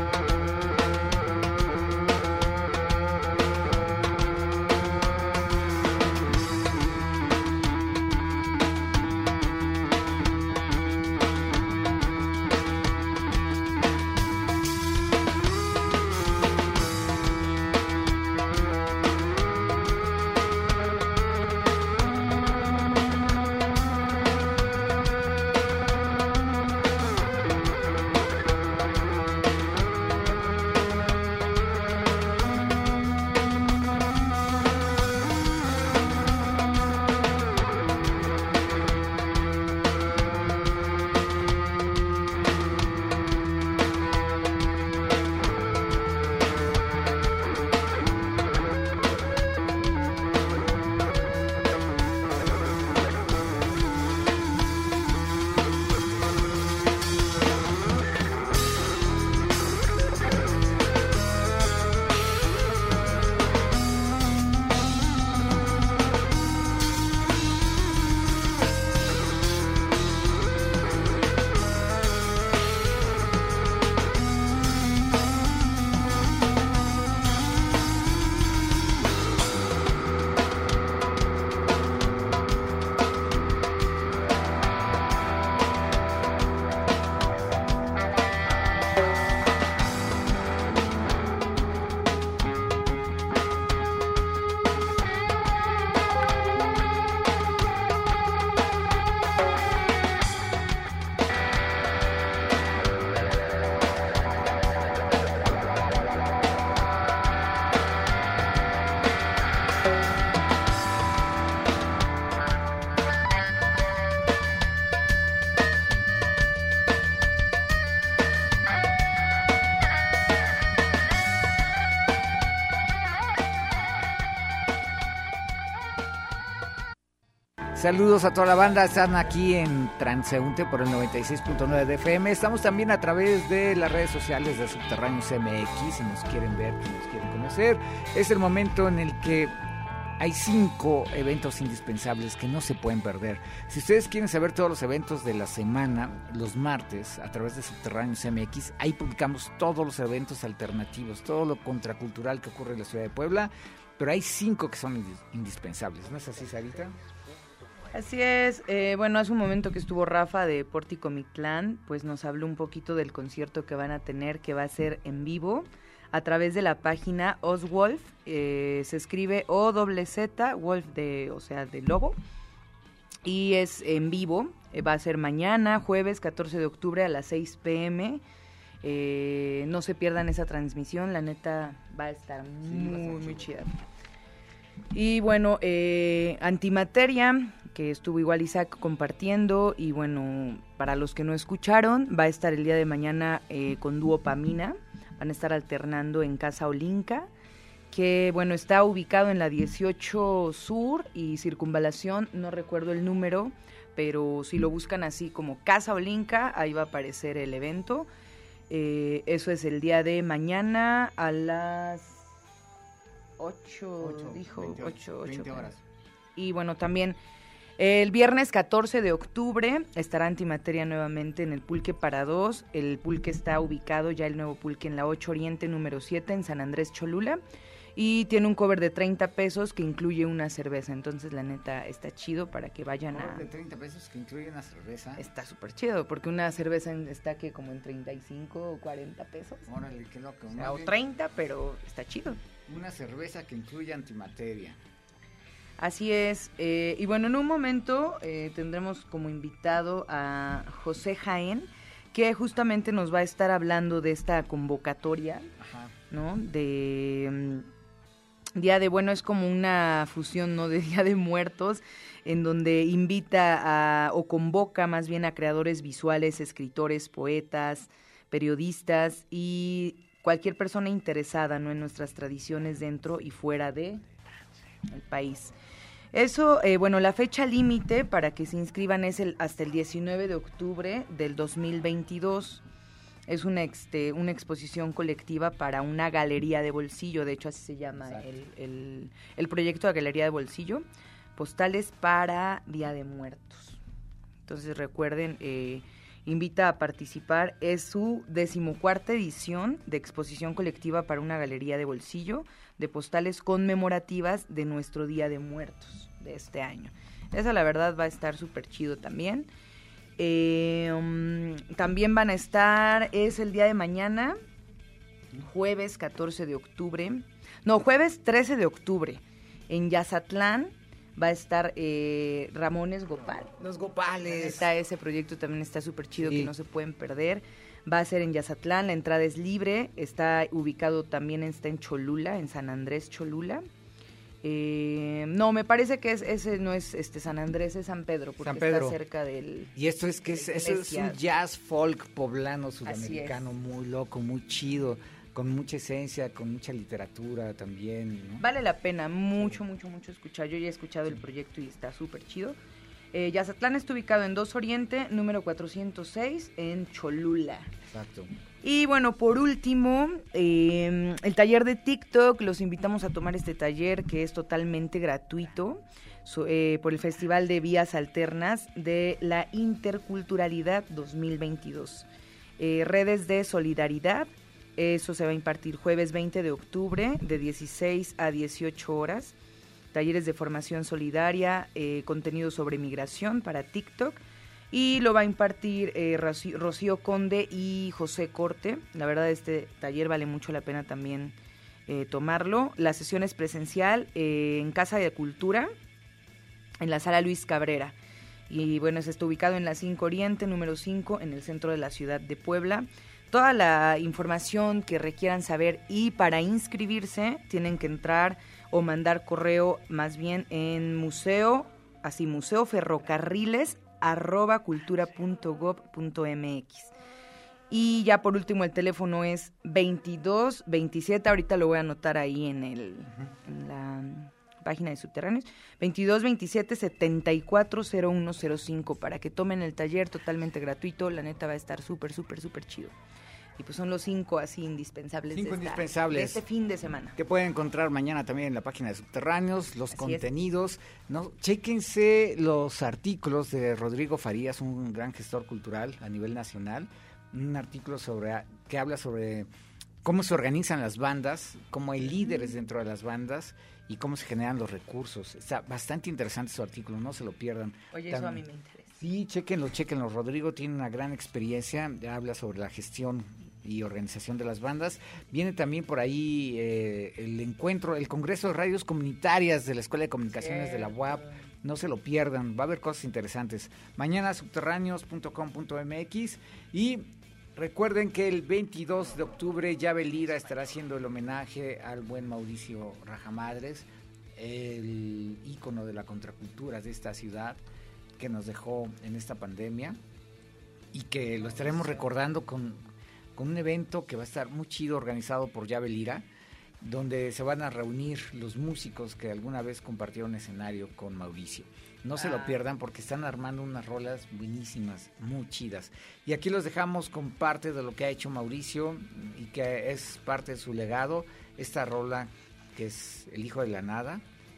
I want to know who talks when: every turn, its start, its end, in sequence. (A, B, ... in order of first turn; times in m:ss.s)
2:07.7-2:19.5 A
2:20.2-2:37.0 A
2:37.9-2:52.2 B
2:53.2-2:58.2 B
2:58.8-3:03.8 B
3:02.6-3:03.5 A
3:04.9-3:17.3 B
3:17.9-3:28.1 B
3:28.7-3:32.3 B
3:33.4-3:35.7 B
3:34.0-3:35.8 A
3:36.4-3:37.2 B
3:37.8-3:47.4 B
3:47.9-3:53.5 B
3:53.1-3:55.2 A
3:55.2-3:59.7 B
3:59.7-4:01.0 A
4:00.5-4:02.4 B
4:02.6-4:04.8 A
4:05.8-4:15.5 B
4:15.6-4:15.9 A
4:16.1-4:17.7 B
4:18.5-4:34.0 B
4:34.9-4:35.5 B
4:36.1-4:42.6 B
4:43.3-4:50.8 B
4:51.4-4:53.8 B
4:54.4-5:09.5 B
5:10.2-5:14.4 B
5:15.4-5:23.5 B
5:23.3-5:24.7 A
5:24.2-5:33.6 B
5:26.2-5:26.5 A
5:34.4-5:39.7 B
5:38.4-5:39.0 A
5:39.7-5:48.4 A
5:40.3-5:41.2 B
5:42.8-5:43.4 B
5:48.4-5:52.6 B
5:53.1-5:57.7 B
5:57.8-5:58.3 A
5:58.6-6:19.4 B
6:19.9-6:31.4 B
6:31.9-6:35.7 B
6:36.8-6:37.9 B
6:38.5-6:56.9 B
6:57.7-7:12.9 B
7:13.6-7:17.2 B
7:15.3-7:16.4 A
7:17.2-7:29.5 A
7:19.9-7:20.2 B
7:30.0-7:38.4 A
7:37.9-7:39.0 B
7:39.0-8:07.6 A
7:50.4-7:51.3 B
8:08.2-8:10.0 A
8:10.9-8:16.3 A
8:16.8-8:34.2 A
8:22.2-8:22.6 B